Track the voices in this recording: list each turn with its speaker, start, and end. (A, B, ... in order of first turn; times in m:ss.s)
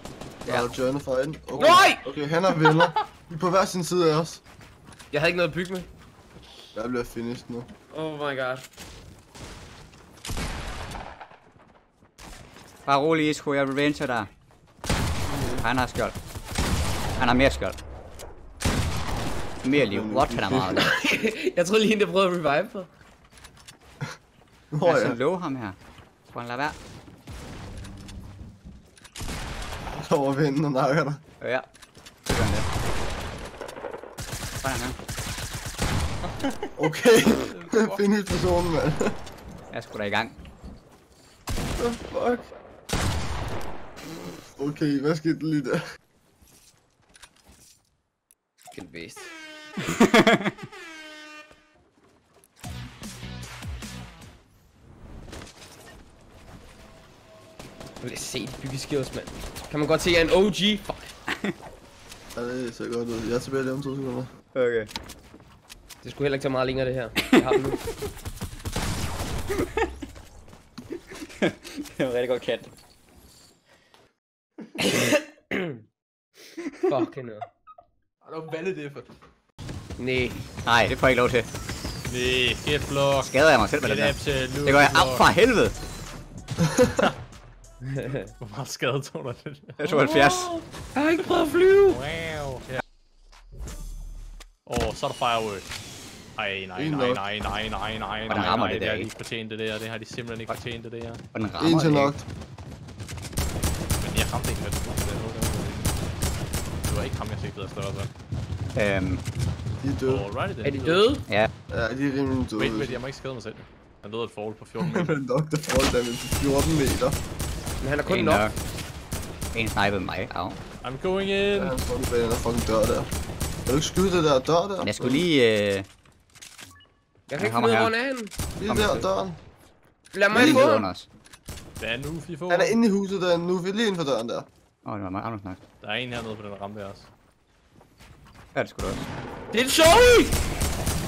0:00.4-0:04.4 A
0:01.5-0:02.0 B
0:05.1-0:05.9 B
0:06.7-0:07.7 A
0:07.9-0:08.7 B
0:12.8-0:14.3 C
0:15.3-0:15.6 A
0:15.6-0:16.2 C
0:17.2-0:17.8 C
0:19.6-0:20.9 C
0:19.7-0:20.9 A
0:20.7-0:22.9 B
0:24.7-0:25.2 A
0:24.8-0:26.8 C
0:29.9-0:31.2 A
0:31.4-0:31.7 C
0:32.2-0:32.7 C
0:34.6-0:35.0 C
0:36.2-0:36.7 D
0:36.8-0:39.2 A
0:39.7-0:40.4 C
0:41.8-0:42.5 A
0:44.6-0:45.8 A
0:48.7-0:49.3 B
0:49.8-0:50.5 C
0:58.0-1:01.1 B
1:02.3-1:04.3 A
1:04.5-1:04.9 C
1:06.0-1:07.8 B
1:09.5-1:09.9 C
1:11.1-1:12.7 C
1:14.8-1:15.8 B
1:16.6-1:16.9 C
1:16.9-1:17.4 B
1:18.2-1:19.0 D
1:20.0-1:20.4 B
1:20.6-1:21.5 C
1:22.1-1:25.3 D
1:23.3-1:25.7 C
1:27.9-1:28.3 B
1:28.4-1:30.2 D
1:29.8-1:30.5 C
1:29.8-1:32.0 B
1:31.8-1:32.8 D
1:34.6-1:35.7 D
1:36.4-1:41.2 D
1:36.8-1:37.2 A
1:38.3-1:39.1 C
1:41.3-1:42.1 C
1:41.6-1:42.2 A
1:44.0-1:45.9 D
1:46.8-1:48.1 D
1:48.7-1:49.2 C
1:49.8-1:50.3 A
1:50.0-1:51.1 D
1:50.6-1:51.3 B
1:51.7-1:53.0 A
1:52.6-1:55.1 D
1:54.8-1:57.2 A
1:57.8-1:58.5 B
1:58.0-1:58.5 C
1:59.5-2:00.6 C
2:00.8-2:01.7 D
2:01.5-2:03.1 A
2:03.7-2:05.2 A
2:04.8-2:05.9 C
2:07.3-2:09.0 B
2:07.3-2:07.9 C
2:08.6-2:09.4 A
2:08.7-2:09.0 C
2:10.1-2:10.9 B
2:10.3-2:11.1 C
2:11.8-2:12.8 D
2:12.5-2:14.5 A
2:14.8-2:15.6 C
2:15.8-2:17.1 D
2:18.5-2:19.1 C
2:19.5-2:20.4 B